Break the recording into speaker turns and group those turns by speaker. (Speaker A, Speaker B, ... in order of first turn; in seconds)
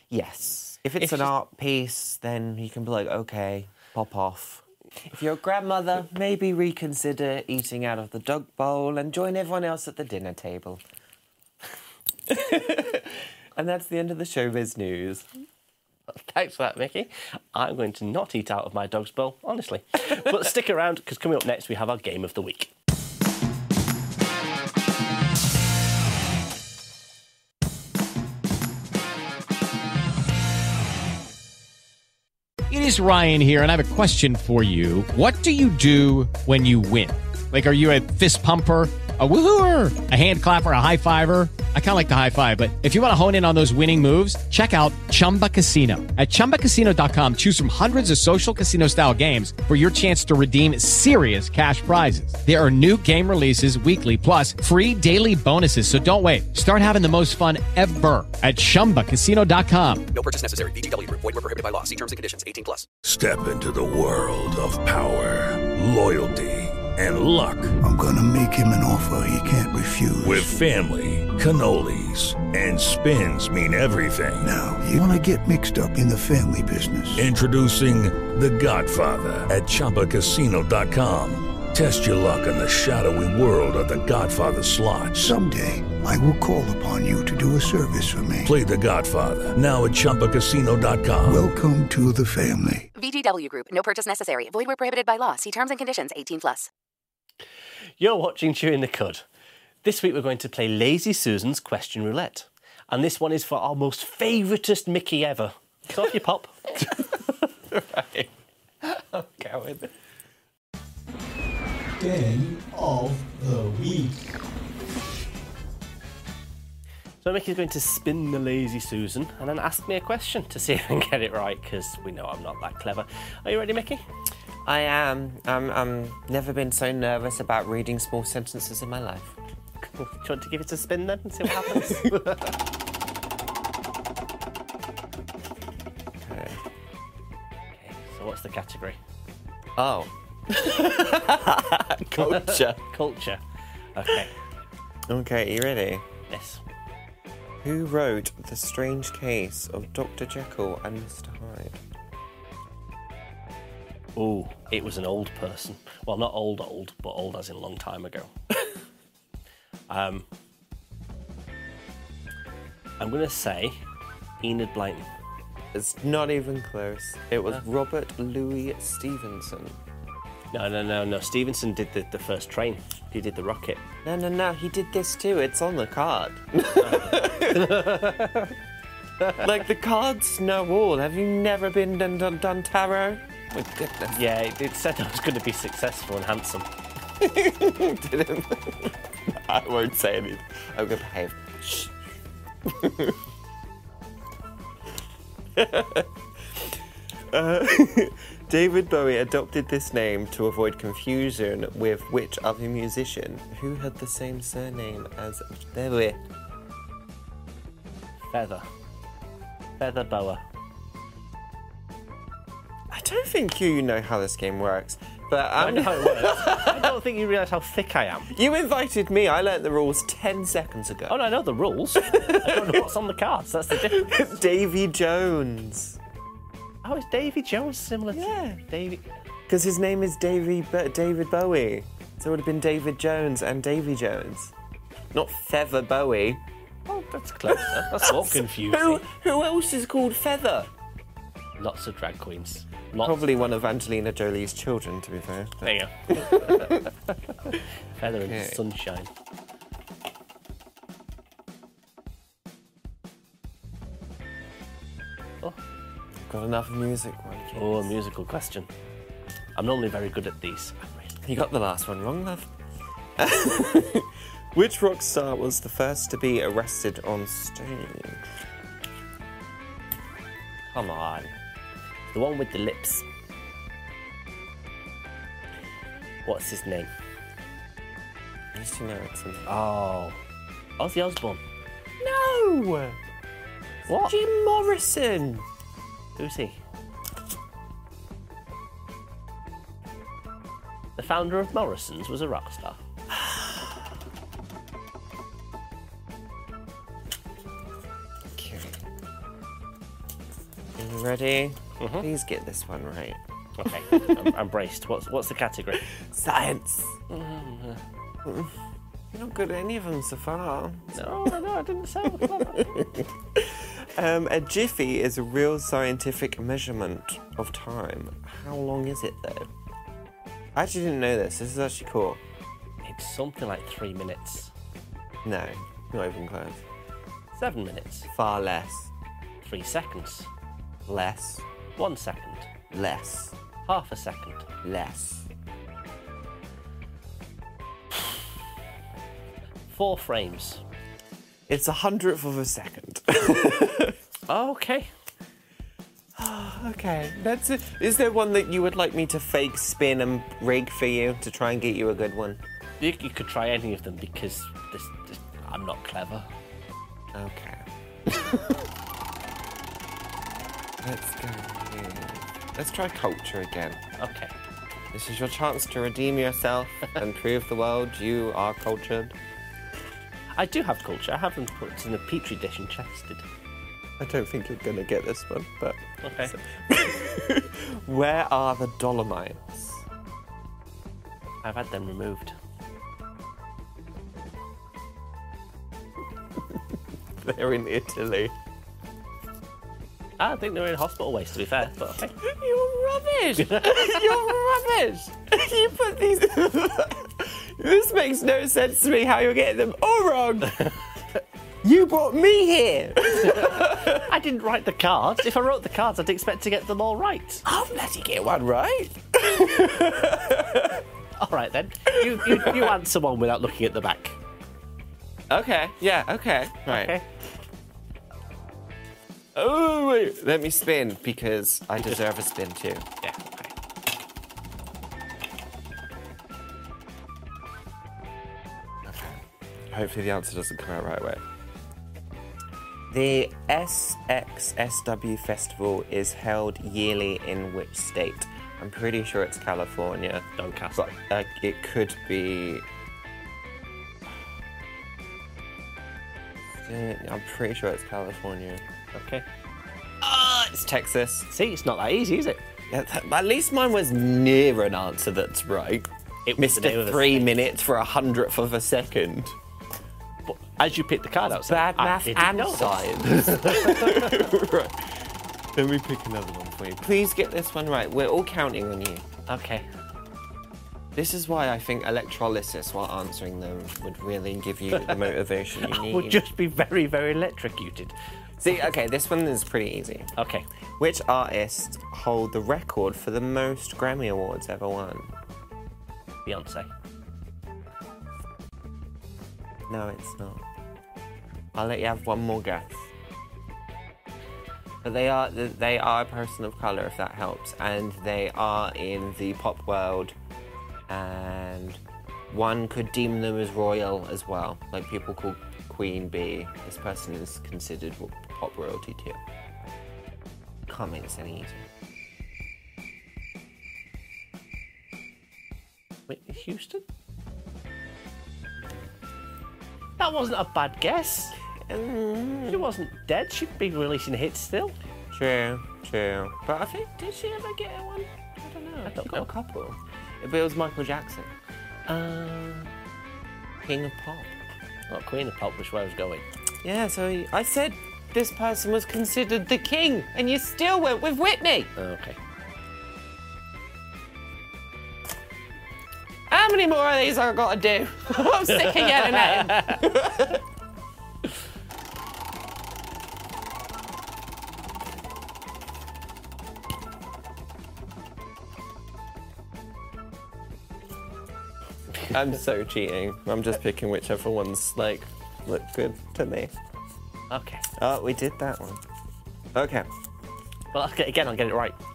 Speaker A: 0.1-10.8, 12.3-15.3, 106.8-107.2, 107.7-108.3, 108.8-109.9, 124.6-129.3, 131.6-131.9, 136.2-136.6, 139.8-142.8, 145.1-146.0, 147.6-151.8, 165.7-169.8, 174.0-177.9, 179.4-184.2, 187.2-191.9, 192.7-193.2, 195.6-196.1, 197.3-206.2, 212.9-216.9, 218.3-221.2, 222.0-222.9, 223.7-226.0, 228.1-228.6, 229.5-234.5, 235.1-236.4, 237.5-240.7, 243.0-246.9, 248.1-248.6, 256.1-257.9, 261.2-262.5, 263.2-268.2, 270.7-271.3, 278.5-279.5, 282.0-283.0, 283.9-285.4, 298.3-298.8, 300.8-303.2, 303.9-304.2, 305.9-307.0, 308.2-308.5, 309.1-311.3, 312.2-319.5, 320.5-322.2, 325.2-326.6, 328.1-328.9, 330.9-331.4, 332.7-333.4, 334.6-335.3, 341.5-344.0, 346.2-352.4, 357.1-358.6, 360.8-363.8, 364.9-369.1, 374.0-379.8, 387.2-388.3, 392.2-400.7, 401.6-404.1, 407.4-410.8, 411.9-412.7, 415.3-417.0, 419.3-422.9, 428.8-431.2, 432.9-442.6, 446.6-448.6, 450.0-451.3, 452.7-459.4, 461.3-469.1, 470.9-476.2, 478.4-480.1, 480.8-485.1, 489.7-490.4, 491.5-492.9, 494.8-500.1, 500.9-509.2, 510.7-511.7, 521.7-522.7, 525.1-531.3, 533.6-534.3, 536.6-541.7, 546.3-550.4, 562.1-566.5, 567.8-568.8, 569.5-569.9
Speaker B: 1.0-1.3, 16.1-22.7, 98.0-99.2, 99.8-106.9, 117.2-124.0, 129.8-132.5, 137.7-139.0, 142.2-143.4, 143.9-144.3, 146.3-146.6, 154.2-158.3, 159.9-160.3, 163.0-163.8, 164.4-165.1, 170.5-173.8, 176.8-178.5, 179.2-179.5, 184.1-186.7, 208.3-208.7, 209.8-210.4, 215.6-218.3, 221.1-224.3, 226.8-229.0, 236.9-239.0, 241.6-243.3, 245.6-246.9, 247.5-249.1, 257.5-258.7, 259.5-261.2, 272.1-273.1, 276.2-276.9, 279.4-280.2, 280.8-281.4, 283.9-284.1, 286.1-286.6, 291.0-292.8, 301.8-302.1, 303.6-305.9, 307.1-307.8, 310.9-312.8, 322.8-324.5, 327.3-328.1, 329.4-330.3, 331.8-332.5, 333.6-334.5, 339.7-340.6, 344.3-344.9, 352.8-356.3, 364.0-364.3, 370.3-373.2, 376.0-376.3, 381.4-382.3, 390.2-392.1, 393.4-394.3, 403.2-407.4, 411.2-414.2, 416.7-417.0, 423.0-423.5, 440.4-440.9, 448.9-449.2, 451.3-452.4, 456.2-457.4, 460.2-464.3, 469.3-469.7, 474.7-477.9, 480.1-480.4, 486.2-486.7, 516.1-516.8, 520.0-521.3, 522.5-524.8, 528.9-529.3, 531.9-532.7, 534.9-536.2, 541.8-542.2, 548.3-549.9, 567.3-567.6, 570.7-571.8
Speaker C: 32.7-60.0
Speaker D: 60.1-62.9
Speaker E: 63.0-67.8, 70.2-74.5, 77.2-85.3, 88.4-91.4
Speaker F: 67.8-70.6, 74.4-77.3, 85.2-88.5, 91.2-92.9
Speaker G: 92.9-96.7